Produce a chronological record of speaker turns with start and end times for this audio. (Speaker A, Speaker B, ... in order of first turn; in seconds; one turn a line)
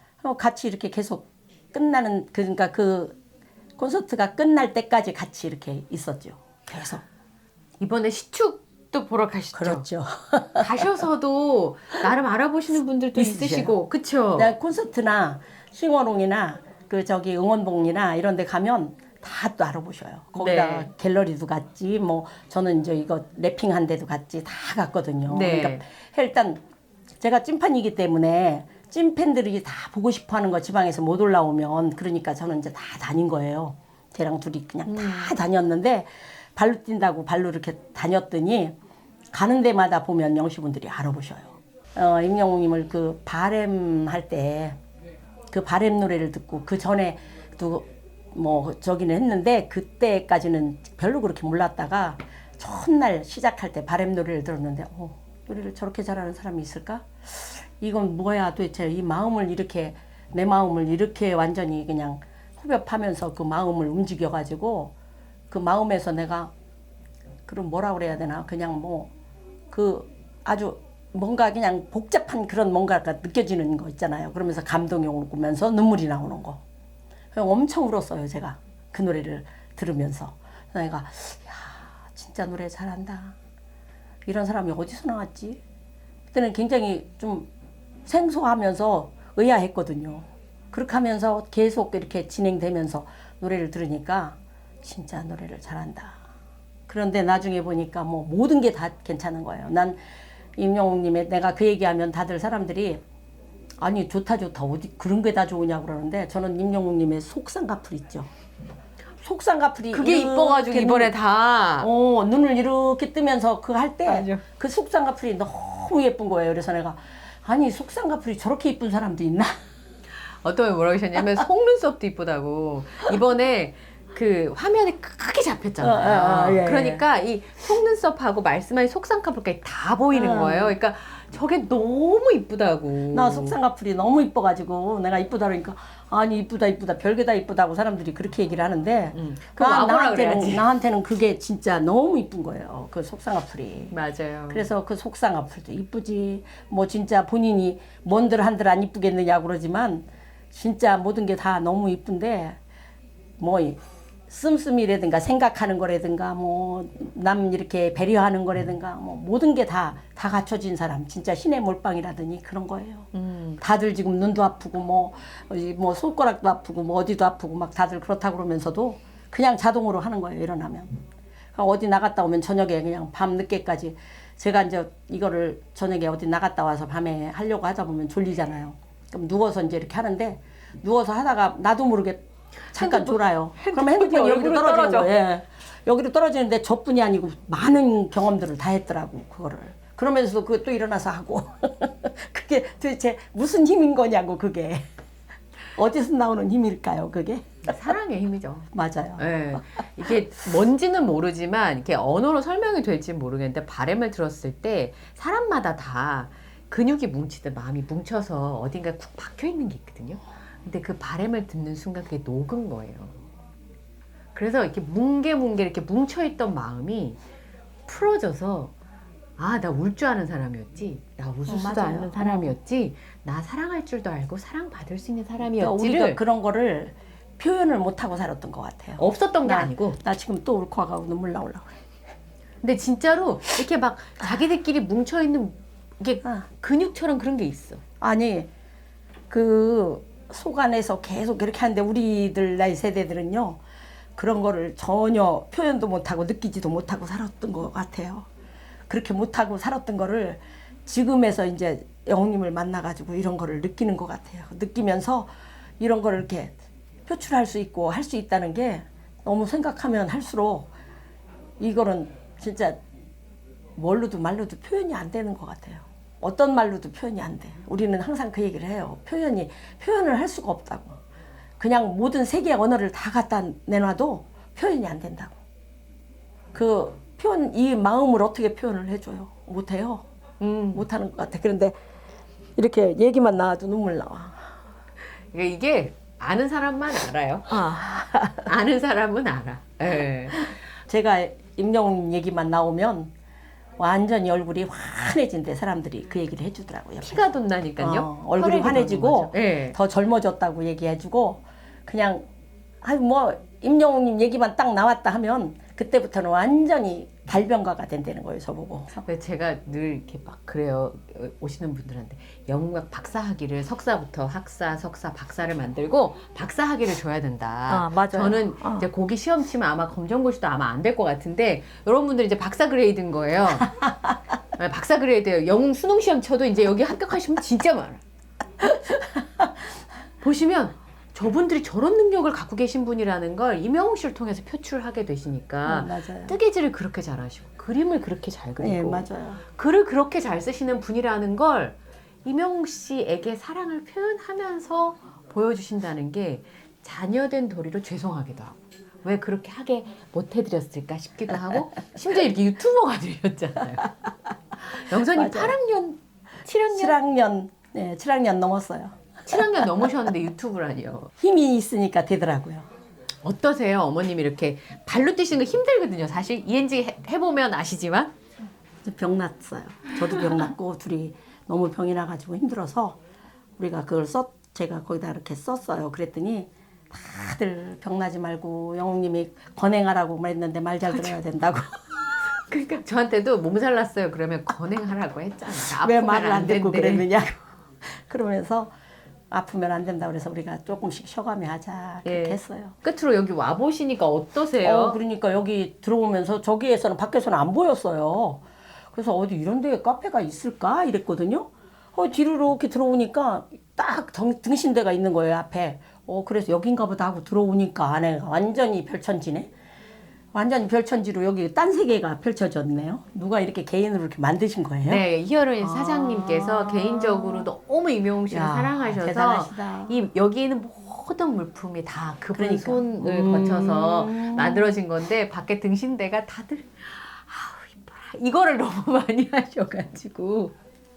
Speaker A: 0.2-3.2
Speaker A: 3.8-7.0
Speaker B: 7.8-9.9
Speaker A: 9.5-10.8
Speaker B: 10.6-14.5
Speaker A: 13.2-13.7
Speaker A: 14.4-26.6
Speaker B: 20.4-20.9
Speaker B: 25.3-25.8
Speaker A: 27.2-38.8
Speaker B: 34.9-35.4
Speaker A: 39.3-44.8
Speaker A: 45.5-64.9
Speaker A: 65.5-66.5
Speaker A: 67.5-69.1
Speaker A: 69.7-76.6
Speaker A: 77.3-83.4
Speaker A: 84.3-85.6
Speaker A: 86.3-87.5
Speaker A: 88.1-96.2
Speaker A: 96.9-100.0
Speaker A: 100.6-103.0
Speaker A: 103.8-108.3
Speaker A: 109.2-111.2
Speaker B: 109.9-111.9
Speaker A: 111.8-119.6
Speaker B: 114.1-114.4
Speaker B: 120.3-133.6
Speaker A: 125.8-127.0
Speaker A: 130.1-130.8
Speaker A: 133.1-143.9
Speaker B: 139.2-140.7
Speaker B: 143.9-144.7
Speaker A: 144.5-152.6
Speaker A: 153.4-171.0
Speaker B: 163.1-163.6
Speaker A: 171.6-194.8
Speaker B: 182.7-185.1
Speaker A: 195.7-197.8
Speaker B: 197.7-213.2
Speaker A: 198.7-199.9
Speaker B: 214.3-217.2
Speaker B: 217.9-218.7
Speaker B: 219.4-226.2
Speaker A: 221.5-222.5
Speaker A: 225.6-231.8
Speaker B: 229.0-230.0
Speaker B: 232.6-237.8
Speaker A: 238.0-238.5
Speaker A: 239.3-243.6
Speaker A: 244.2-248.3
Speaker A: 248.9-256.6
Speaker A: 257.1-260.7
Speaker A: 261.6-262.8
Speaker A: 263.8-271.0
Speaker A: 271.6-275.4
Speaker A: 276.5-280.1
Speaker B: 280.4-280.9
Speaker A: 280.7-281.8
Speaker A: 282.6-284.5
Speaker B: 285.3-287.8
Speaker A: 287.5-288.5
Speaker B: 288.4-290.6
Speaker A: 290.5-293.1
Speaker A: 293.8-302.2
Speaker B: 297.0-299.8
Speaker A: 302.8-309.0
Speaker B: 309.1-323.9
Speaker A: 317.7-318.8
Speaker B: 324.6-328.0
Speaker A: 328.6-329.2
Speaker B: 330.2-354.0
Speaker A: 335.7-336.4
Speaker A: 338.6-339.4
Speaker B: 354.7-357.0
Speaker A: 354.8-355.6
Speaker A: 356.7-359.0
Speaker B: 359.3-361.1
Speaker A: 361.2-362.7
Speaker B: 363.2-368.1
Speaker A: 368.9-373.0
Speaker A: 373.6-381.8
Speaker B: 382.3-387.1
Speaker A: 385.8-388.7
Speaker A: 389.3-392.8
Speaker B: 392.1-395.0
Speaker A: 394.6-409.5
Speaker A: 410.3-415.0
Speaker B: 414.8-430.6
Speaker A: 415.6-417.5
Speaker A: 418.3-420.0
Speaker A: 422.4-424.8